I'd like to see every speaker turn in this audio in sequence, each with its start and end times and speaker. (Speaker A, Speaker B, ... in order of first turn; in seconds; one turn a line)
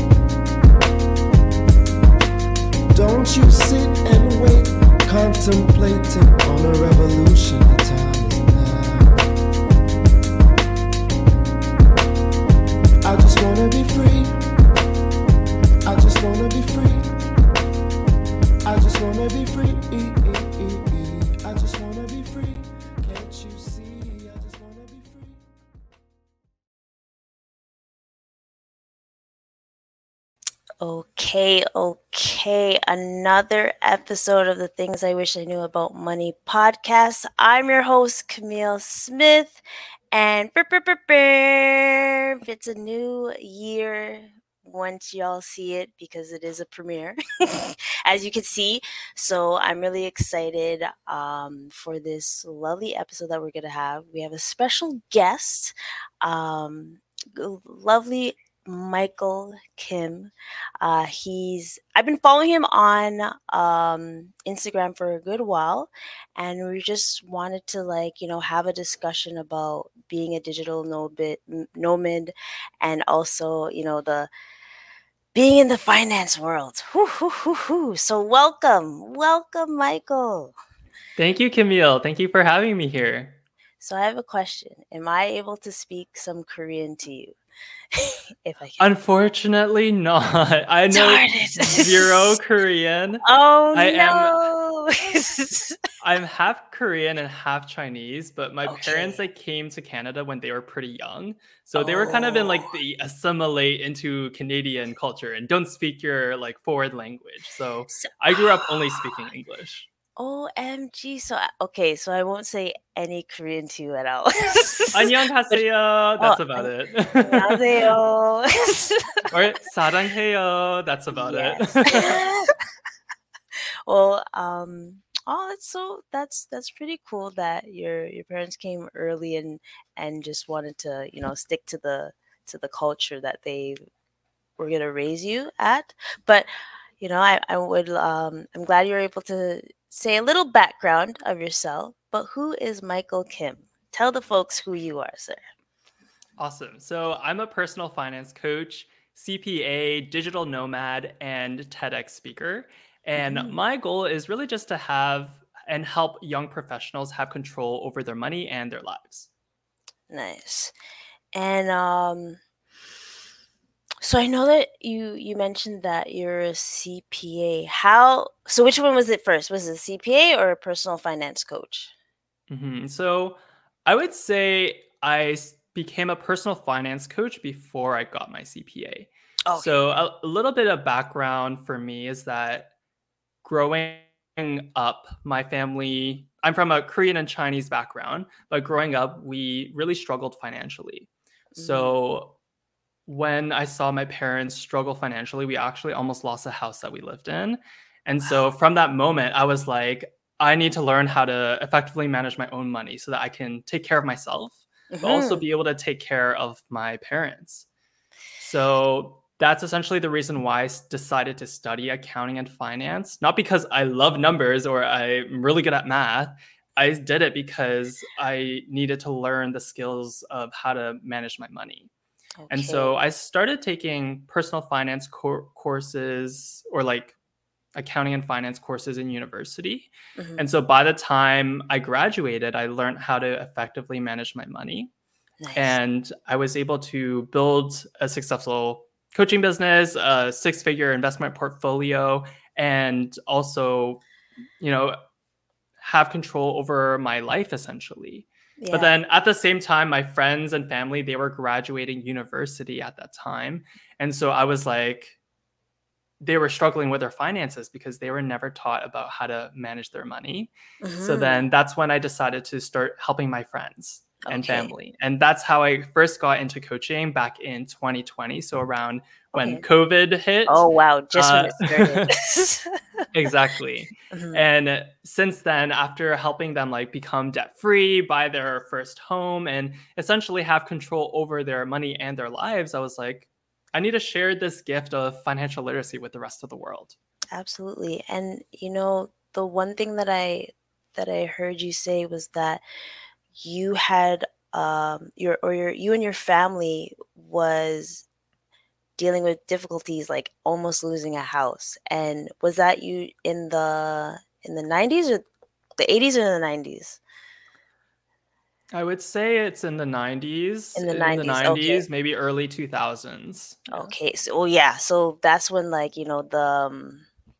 Speaker A: 2.9-9.3
Speaker A: 13.0-14.4
Speaker A: 15.9-17.1
Speaker A: 18.7-25.4
Speaker B: 30.8-39.6
Speaker B: 40.1-74.3
Speaker B: 75.3-80.5
Speaker C: 81.2-83.4
Speaker B: 83.8-87.4
Speaker B: 87.9-88.9
Speaker C: 88.8-94.4
Speaker B: 90.9-92.3
Speaker B: 93.2-95.8
Speaker C: 96.0-109.9
Speaker B: 98.7-99.2
Speaker B: 101.8-102.7
Speaker B: 108.0-108.7
Speaker B: 110.2-115.6
Speaker C: 114.9-117.6
Speaker B: 116.2-119.3
Speaker C: 119.3-122.2
Speaker B: 121.1-122.5
Speaker B: 123.9-133.8
Speaker B: 134.6-136.5
Speaker B: 137.0-145.4
Speaker C: 146.4-159.3
Speaker B: 153.2-153.6
Speaker B: 160.1-160.7
Speaker B: 161.3-162.4
Speaker B: 164.0-171.9
Speaker C: 172.5-182.7
Speaker B: 179.5-179.9
Speaker C: 183.4-192.3
Speaker B: 191.6-192.0
Speaker C: 193.1-207.7
Speaker B: 204.9-205.4
Speaker C: 208.4-221.9
Speaker B: 222.4-222.9
Speaker C: 222.5-227.1
Speaker C: 227.8-234.9
Speaker B: 230.2-230.4
Speaker B: 235.4-235.8
Speaker C: 235.6-244.0
Speaker C: 244.6-245.0
Speaker C: 245.8-255.2
Speaker B: 248.6-248.9
Speaker C: 256.2-260.5
Speaker B: 260.8-261.5
Speaker C: 261.0-272.2
Speaker B: 264.3-264.7
Speaker B: 269.4-269.6
Speaker B: 270.5-272.8
Speaker C: 273.1-287.0
Speaker B: 274.1-274.4
Speaker B: 287.3-292.6
Speaker B: 293.4-298.1
Speaker B: 299.0-305.2
Speaker B: 305.8-307.0
Speaker C: 308.7-313.9
Speaker B: 310.8-311.8
Speaker B: 313.7-317.1